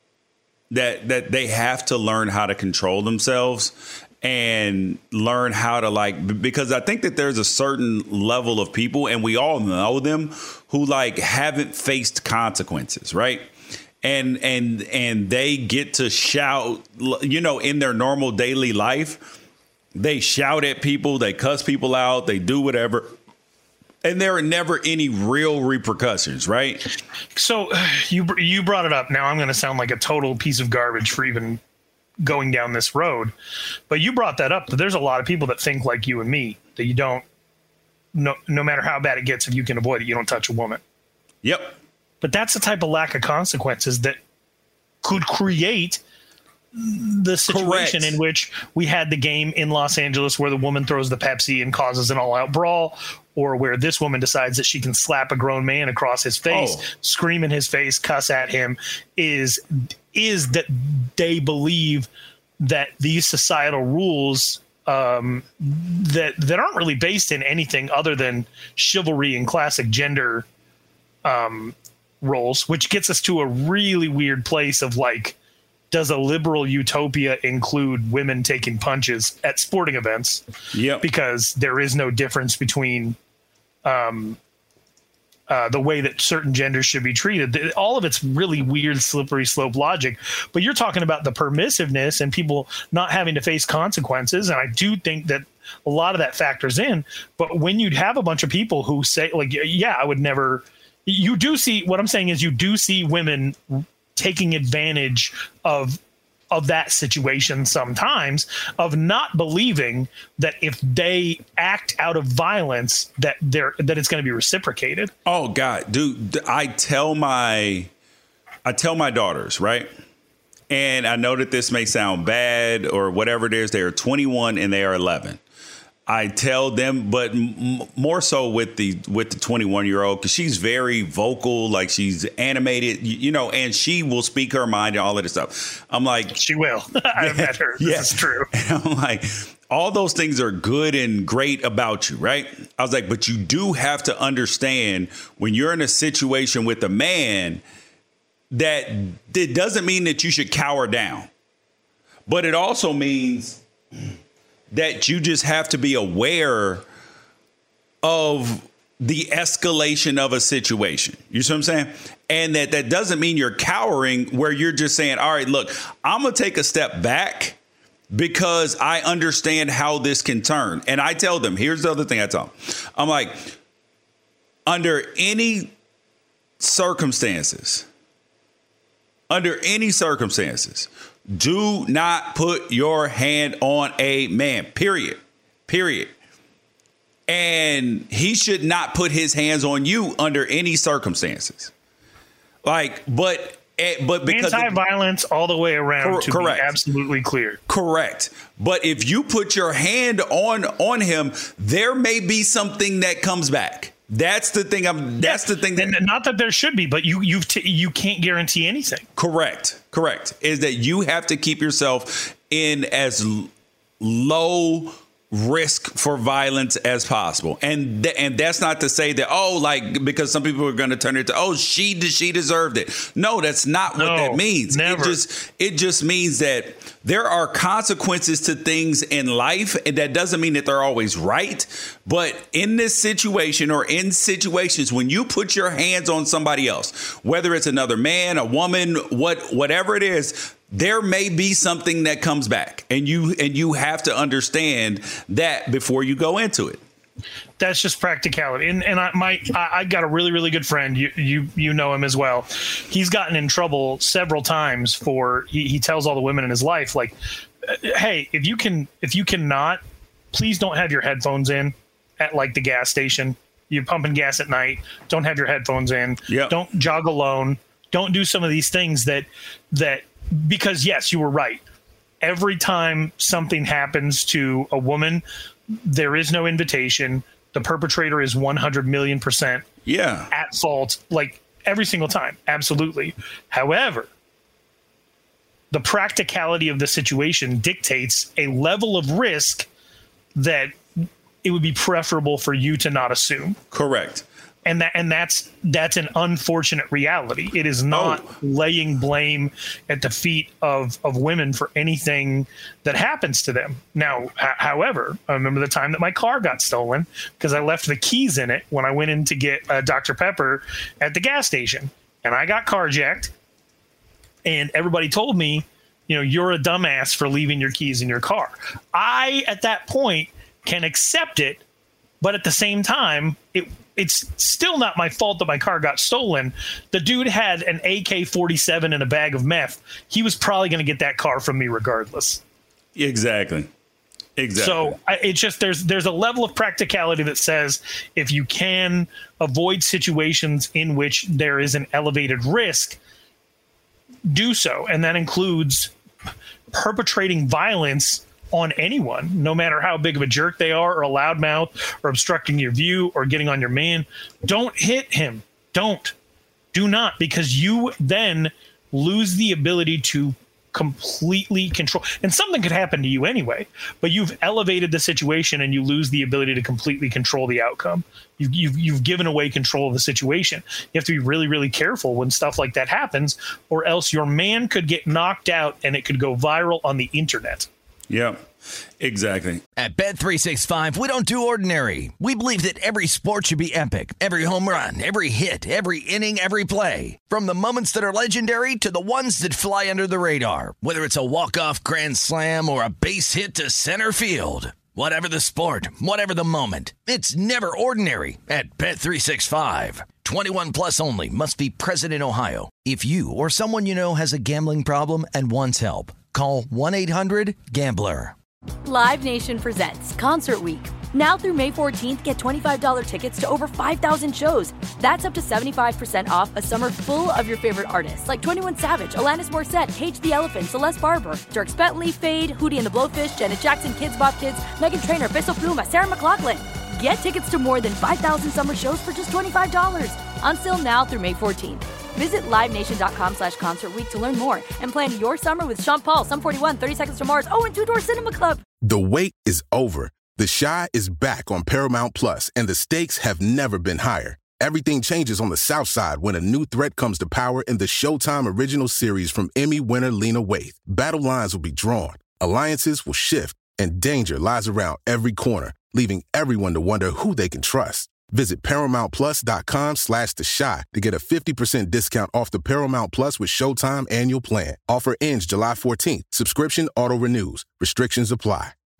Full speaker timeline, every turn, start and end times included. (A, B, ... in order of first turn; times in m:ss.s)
0:00.7-0:13.5 A
0:14.0-0:19.2 A
0:19.9-0:23.1 A
0:24.0-0:26.8 A
0:27.4-0:31.6 B
0:32.2-0:33.3 B
0:33.9-0:37.2 B
0:38.1-0:40.8 B
0:41.4-0:41.8 A
0:42.2-0:44.2 B
0:45.0-0:46.0 B
0:46.7-1:02.1 B
0:47.5-0:48.2 A
0:56.5-0:56.8 A
1:02.6-1:10.4 B
1:11.2-1:15.4 B
1:15.9-1:20.4 B
1:20.7-1:21.0 A
1:21.0-1:23.2 B
1:23.8-1:24.4 B
1:25.5-1:46.0 B
1:46.5-1:55.1 B
1:55.2-1:57.9 A
1:58.6-1:59.9 A
2:00.7-2:05.4 A
2:06.1-2:16.4 A
2:16.4-2:18.5 B
2:17.2-2:27.6 A
2:28.5-2:31.3 A
2:32.3-2:33.6 A
2:34.7-2:36.8 A
2:38.0-2:47.6 A
2:48.1-2:53.5 A
2:54.6-2:55.7 A
2:56.6-2:57.8 A
2:59.3-3:06.1 A
3:07.3-3:11.7 A
3:12.6-3:14.8 A
3:14.3-3:17.6 B
3:16.0-3:16.7 A
3:17.7-3:25.9 A
3:25.2-3:29.0 B
3:29.2-4:06.8 A
3:43.9-3:45.2 B
4:07.6-4:31.6 B
4:26.3-4:26.6 A
4:32.2-4:39.6 B
4:39.8-4:40.3 A
4:40.3-4:44.1 B
4:45.7-4:49.7 B
4:50.3-4:50.7 B
4:51.4-4:53.6 B
4:53.7-4:54.2 A
4:54.6-5:13.3 B
4:57.9-4:58.2 A
5:14.4-5:21.6 B
5:22.2-5:32.4 B
5:33.0-5:33.7 A
5:34.4-5:34.9 A
5:34.6-5:43.0 B
5:44.2-5:45.9 B
5:46.7-5:56.1 B
5:56.7-6:17.7 B
6:18.1-6:18.4 A
6:19.0-6:19.6 A
6:19.8-6:48.3 C
6:48.8-7:18.6 D
7:18.8-7:48.7 E